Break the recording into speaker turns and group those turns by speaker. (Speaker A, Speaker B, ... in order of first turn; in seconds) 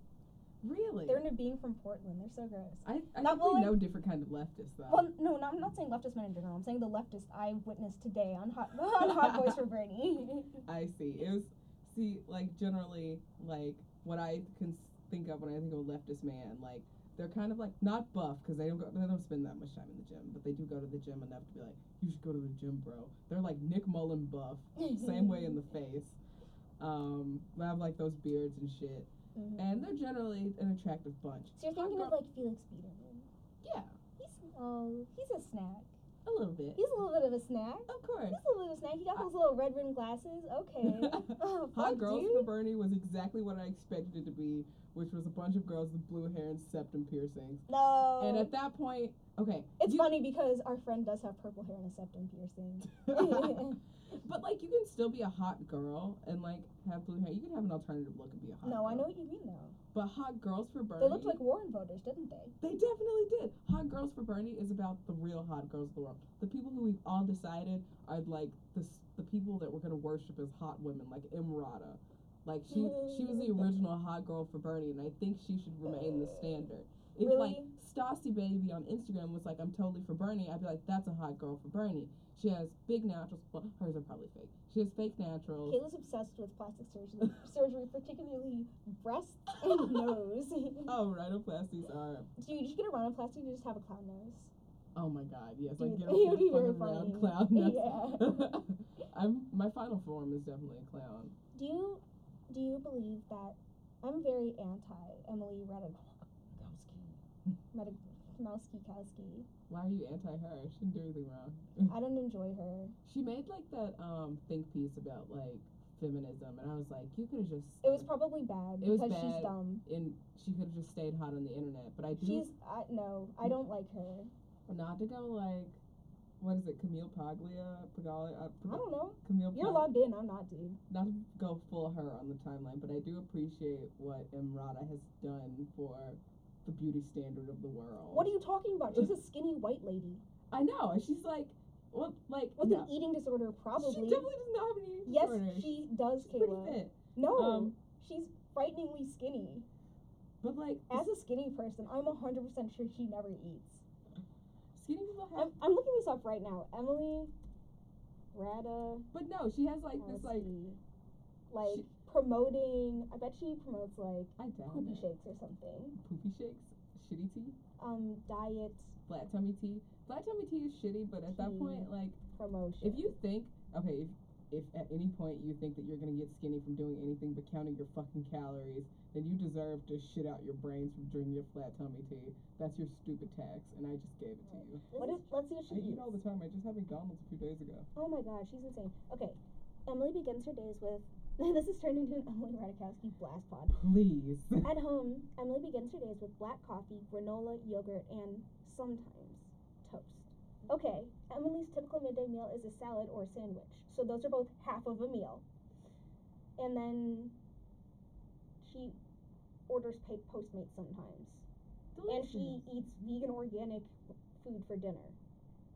Speaker A: 0.6-1.2, 2.8-5.1, 9.0-9.6, 10.6-26.2, 26.8-32.1, 33.6-34.0, 36.2-36.8, 37.9-38.4, 40.8-47.7, 48.2-50.1, 53.0-59.1, 59.9-61.4, 62.6-85.8, 89.6-90.2, 90.8-92.3, 94.9-101.3, 106.7-107.1, 109.7-111.9, 113.0-118.1, 118.8-122.5, 124.7-125.8, 126.4-129.9, 130.9-138.3, 140.5-142.9, 143.8-147.7, 150.4-151.1, 154.7-155.5, 159.1-160.5, 161.6-161.9, 164.4-165.1, 166.0-167.6, 169.1-172.2, 172.8-187.9, 193.7-194.7, 211.9-212.7
Speaker B: 1.1-3.8, 4.9-10.6, 24.8-25.6, 29.3-29.9, 31.6-33.3, 34.2-35.9, 36.8-42.5, 47.7-48.5, 49.8-53.8, 58.6-59.8, 61.0-62.5, 72.7-73.6, 75.9-76.6, 77.2-77.7, 85.7-90.9, 92.3-94.5, 95.8-98.5, 101.5-107.1, 107.7-109.5, 111.8-113.0, 117.8-119.8, 122.2-124.3, 128.7-130.8, 138.1-140.2, 142.6-144.3, 145.0-149.7, 150.9-153.8, 155.3-157.3, 158.3-159.1, 160.0-160.8, 161.5-166.0, 167.8-169.0, 171.3-173.1, 184.5-186.2, 187.9-193.8, 194.6-205.4, 206.6-207.3, 208.6-209.0, 209.7-211.4, 212.1-215.2